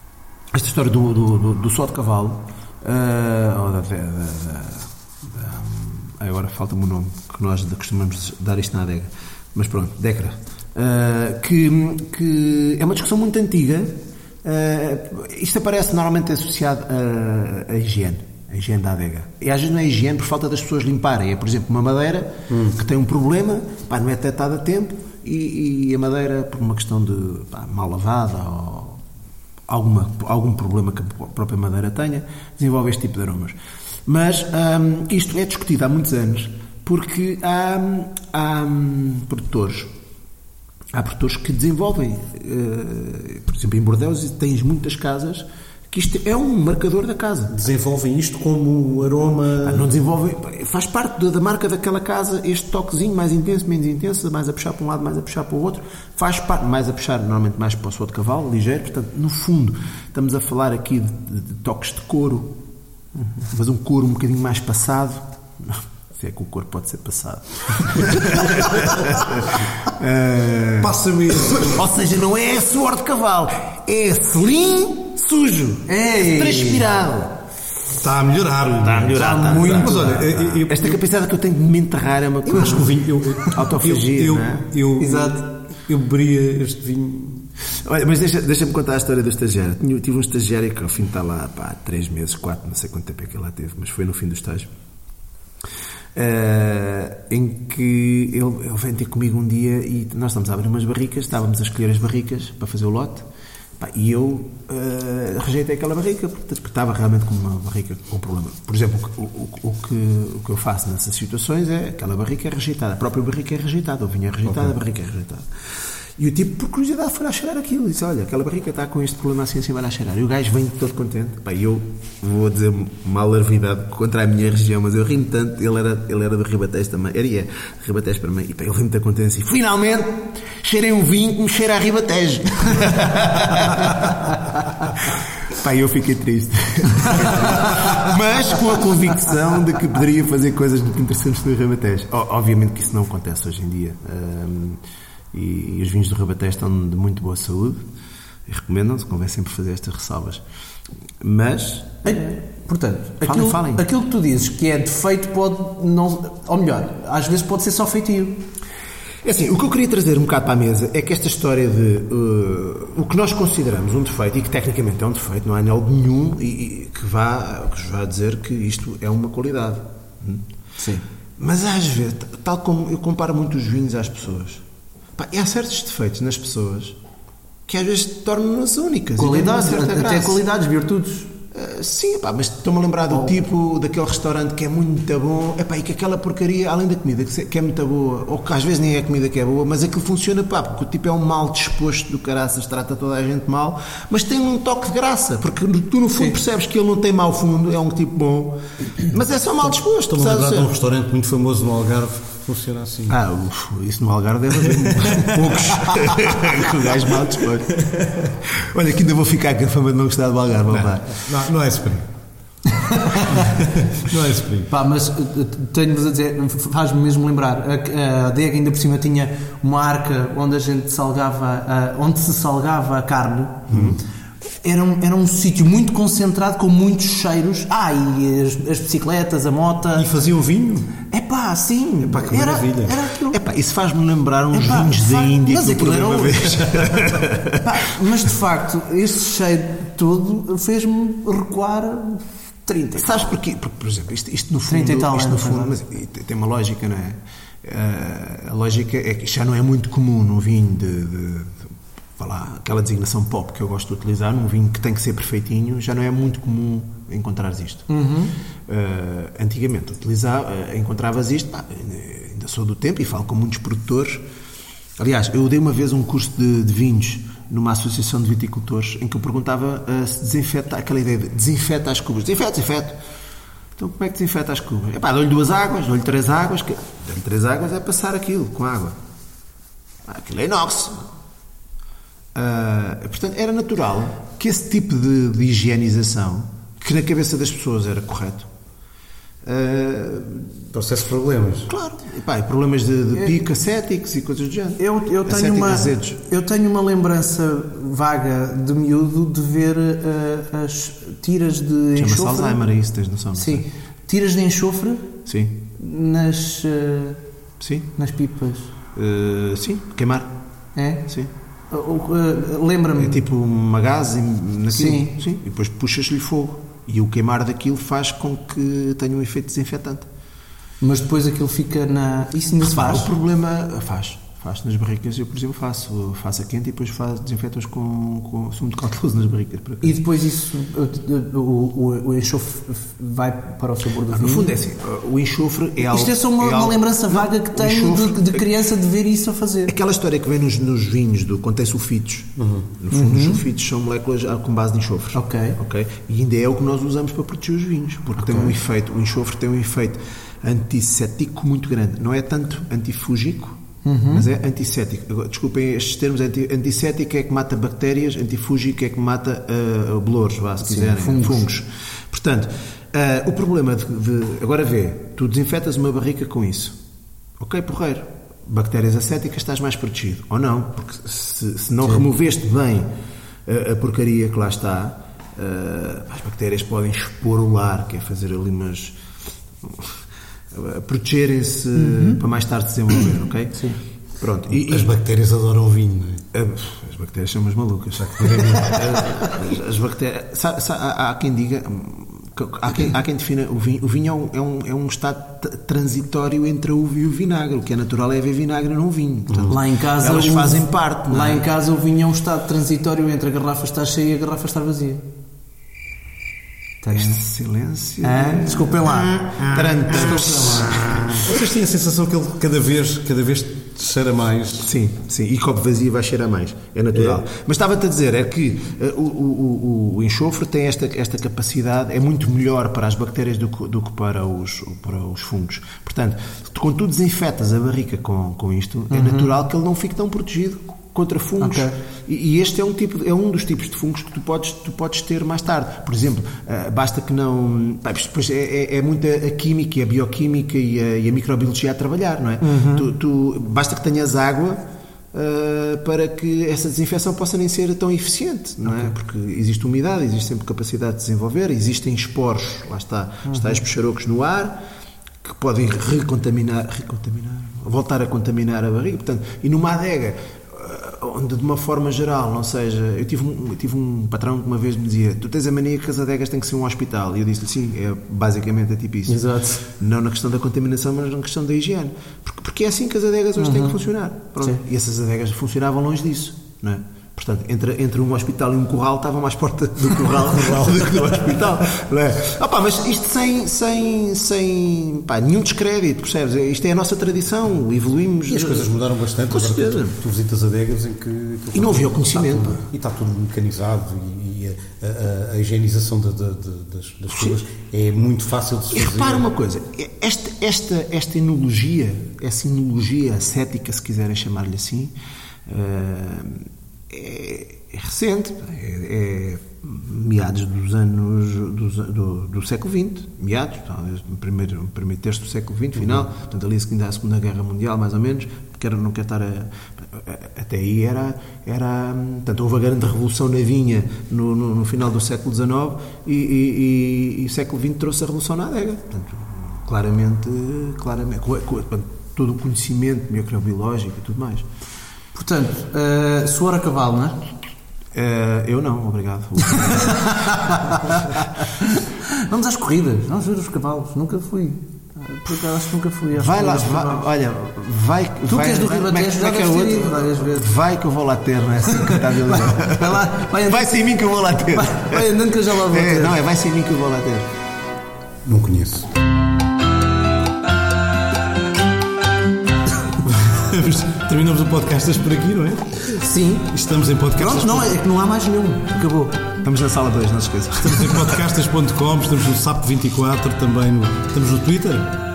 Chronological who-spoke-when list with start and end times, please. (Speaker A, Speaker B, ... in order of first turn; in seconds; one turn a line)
Speaker A: 0.5-29.0
Speaker B: 22.5-22.8
Speaker A: 29.7-39.9
Speaker A: 40.9-47.5
Speaker B: 47.5-49.9
Speaker A: 49.6-62.5
Speaker A: 63.4-77.3
Speaker B: 70.8-71.8
Speaker C: 75.9-76.8
Speaker B: 78.0-81.0
Speaker A: 78.8-84.7
Speaker C: 79.1-80.2
Speaker B: 82.4-87.5
Speaker C: 85.0-85.5
Speaker A: 87.7-94.7
Speaker A: 96.1-103.2
Speaker A: 103.8-115.6
Speaker B: 114.5-114.7
Speaker A: 116.2-144.8
Speaker A: 145.3-147.8
Speaker A: 148.5-150.4
Speaker A: 151.2-152.2
Speaker C: 152.0-158.4
Speaker A: 153.2-153.8
Speaker A: 159.2-170.4
Speaker C: 170.8-171.0
Speaker A: 171.4-174.6
Speaker A: 175.2-177.0
Speaker A: 177.7-180.4
Speaker C: 179.2-181.3
Speaker A: 181.5-200.7
Speaker B: 200.1-203.2
Speaker A: 203.1-207.8
Speaker B: 205.1-206.6
Speaker B: 207.8-208.3
Speaker A: 208.5-211.2
Speaker B: 210.7-212.1
Speaker C: 212.8-213.4
Speaker B: 213.3-214.7
Speaker C: 214.7-223.9
Speaker A: 223.7-224.0
Speaker B: 223.7-224.0
Speaker C: 224.6-230.1
Speaker B: 229.9-231.0
Speaker C: 231.1-233.4
Speaker B: 232.0-233.0
Speaker A: 233.3-237.6
Speaker C: 234.5-236.7
Speaker B: 236.7-237.2
Speaker C: 237.6-243.1
Speaker A: 243.0-257.9
Speaker C: 244.7-245.7
Speaker C: 257.9-258.3
Speaker A: 258.7-264.2
Speaker A: 265.0-273.0
Speaker A: 273.8-278.9
Speaker A: 280.1-281.0
Speaker A: 282.3-288.5
Speaker A: 289.4-290.6
Speaker B: 290.7-291.7
Speaker A: 291.7-296.2
Speaker C: 294.8-302.6
Speaker A: 301.9-303.6
Speaker C: 303.3-305.1
Speaker A: 305.2-305.6
Speaker C: 305.8-307.2
Speaker A: 307.6-307.9
Speaker C: 307.9-308.7
Speaker A: 308.9-310.3
Speaker C: 310.8-311.0
Speaker C: 311.7-313.2
Speaker A: 313.0-320.1
Speaker C: 314.7-315.1
Speaker C: 320.8-323.1
Speaker A: 322.6-329.9
Speaker C: 329.8-334.5
Speaker A: 334.1-338.5
Speaker C: 335.8-339.7
Speaker A: 339.7-366.8
Speaker B: 342.4-342.7
Speaker C: 342.9-343.4
Speaker C: 345.1-345.6
Speaker C: 348.2-348.5
Speaker C: 353.8-354.3
Speaker C: 360.6-361.5
Speaker A: 367.4-372.9
Speaker A: 373.4-379.0
Speaker A: 379.6-380.0
Speaker A: 380.5-383.6
Speaker C: 381.7-382.2
Speaker C: 383.0-383.8
Speaker A: 384.1-384.9
Speaker B: 384.5-386.2
Speaker A: 386.3-401.4
Speaker B: 388.0-389.0
Speaker B: 399.3-399.6
Speaker C: 399.5-405.0
Speaker C: 406.8-407.2
Speaker A: 406.9-411.3
Speaker C: 408.0-410.7
Speaker B: 411.1-414.7
Speaker A: 414.6-444.6
Speaker C: 428.9-429.3
Speaker C: 431.4-431.8
Speaker C: 442.4-442.9
Speaker A: 445.1-454.6
Speaker C: 453.2-453.6
Speaker A: 455.2-488.7
Speaker C: 469.1-469.6
Speaker C: 473.4-473.8
Speaker C: 474.4-474.6
Speaker B: 480.2-481.0
Speaker B: 488.3-499.2
Speaker A: 489.3-490.0
Speaker A: 491.5-492.6
Speaker A: 497.1-497.4
Speaker A: 498.7-504.9
Speaker A: 505.5-534.5
Speaker B: 515.8-516.0
Speaker C: 535.1-537.2
Speaker A: 537.9-541.4
Speaker C: 539.9-547.0
Speaker A: 546.1-557.2
Speaker C: 548.3-550.5
Speaker C: 551.7-556.2
Speaker B: 558.2-558.9
Speaker B: 563.0-567.8
Speaker C: 566.0-566.5
Speaker C: 567.2-569.2
Speaker A: 569.4-571.2
Speaker B: 570.6-574.9